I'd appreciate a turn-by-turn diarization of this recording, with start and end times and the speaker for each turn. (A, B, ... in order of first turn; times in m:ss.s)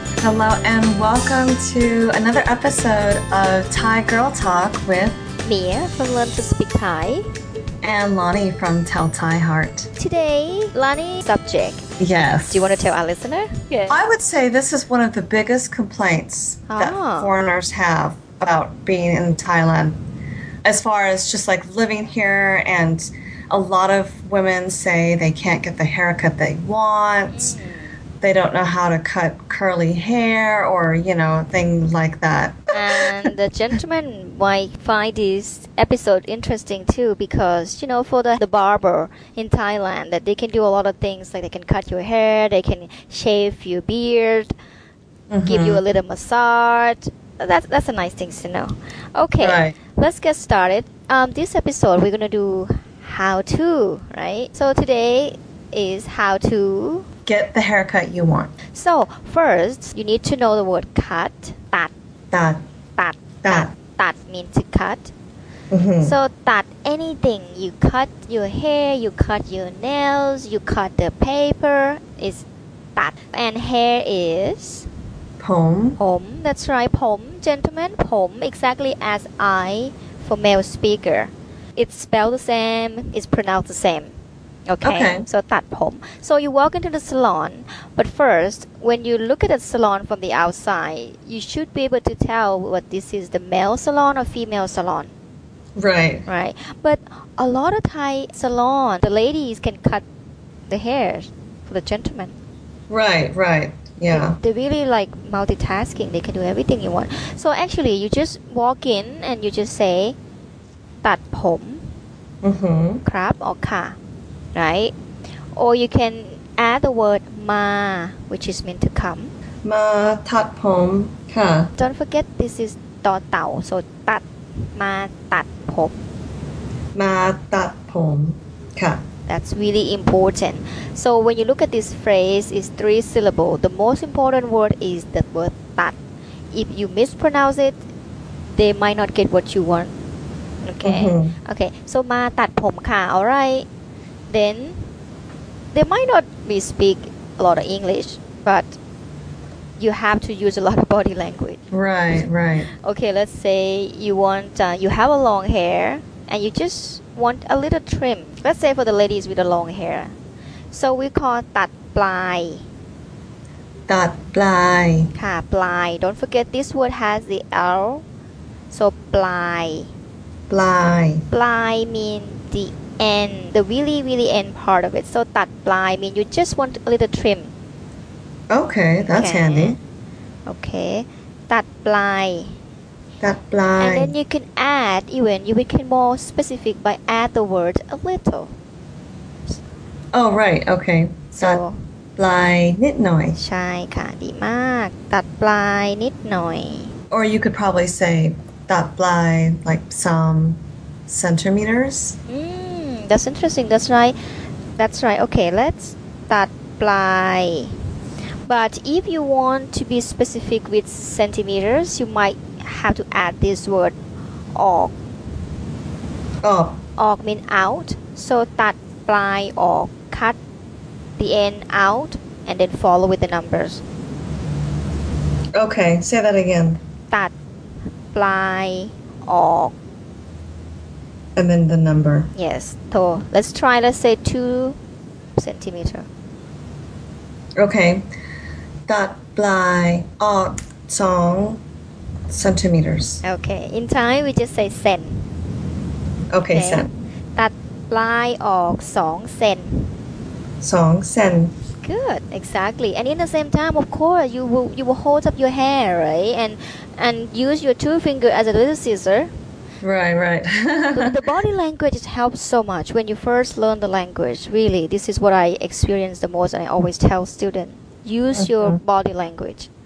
0:00.2-0:05.2 A
0:05.4-0:07.3 B
0:07.8-0:09.9 A
0:10.0-0:11.9 B
0:12.0-0:12.9 A
0:12.5-0:14.0 B
0:13.9-0:20.0 A
0:16.7-0:17.3 B
0:20.6-0:27.6 A
0:27.3-0:28.0 B
0:28.2-0:33.3 A
0:32.7-0:44.5 B
0:45.3-0:45.8 A
0:45.4-0:57.1 B
0:49.4-0:49.8 A
0:57.3-0:58.5 A
0:58.7-1:01.9 B
1:02.3-1:02.6 A
1:03.0-1:05.1 B
1:03.4-1:03.7 A
1:05.7-1:06.2 A
1:06.0-1:12.4 B
1:13.0-1:14.9 B
1:15.4-1:16.0 A
1:16.0-1:24.2 B
1:24.7-1:35.1 B
1:24.8-1:25.3 A
1:35.8-1:36.3 A
1:36.3-1:40.0 B
1:40.7-1:42.4 B
1:42.9-1:44.4 A
1:44.1-1:50.2 B
1:51.0-1:51.9 B
1:52.4-1:53.0 A
1:53.0-1:54.0 B
1:54.6-1:54.9 B
1:55.6-1:59.3 B
1:59.6-2:01.7 A
2:01.8-2:06.0 B
2:07.0-2:09.0 A
2:09.3-2:16.0 B
2:16.5-2:17.8 B
2:18.5-2:19.9 B
2:20.6-2:23.7 B
2:20.8-2:21.4 A
2:24.3-2:24.9 B
2:25.7-2:28.8 B
2:29.8-2:31.6 B
2:31.7-2:32.7 A
2:32.2-2:40.2 B
2:40.7-2:42.7 B
2:43.9-2:45.1 A
2:45.1-2:48.0 B
2:48.7-2:49.9 B
2:50.5-2:51.2 A
2:51.3-2:57.5 B
2:58.5-2:59.8 A
2:59.1-2:59.8 B
3:00.5-3:02.6 B
3:03.2-3:04.1 A
3:03.8-3:08.6 B
3:10.1-3:11.6 A
3:11.3-3:11.8 B
3:12.2-3:13.4 A
3:13.4-3:16.9 B
3:17.1-3:22.2 A
3:22.3-3:24.2 B
3:24.8-3:27.7 B
3:28.5-3:34.0 B
3:34.6-3:34.9 B
3:36.4-3:36.8 A
3:37.0-3:40.4 B
3:41.2-3:43.8 B
3:45.6-3:46.8 A
3:48.1-3:49.8 B
3:51.4-3:52.3 A
3:52.4-3:54.8 B
3:55.4-3:56.1 B
3:57.6-3:58.1 A
3:58.9-4:01.6 A
4:02.3-4:03.2 A
4:03.2-4:05.3 B
4:06.3-4:06.9 A
4:06.5-4:10.0 B
4:10.6-4:11.5 A
4:11.8-4:19.3 B
4:19.8-4:21.2 A
4:20.9-4:29.7 B
4:28.4-4:28.8 A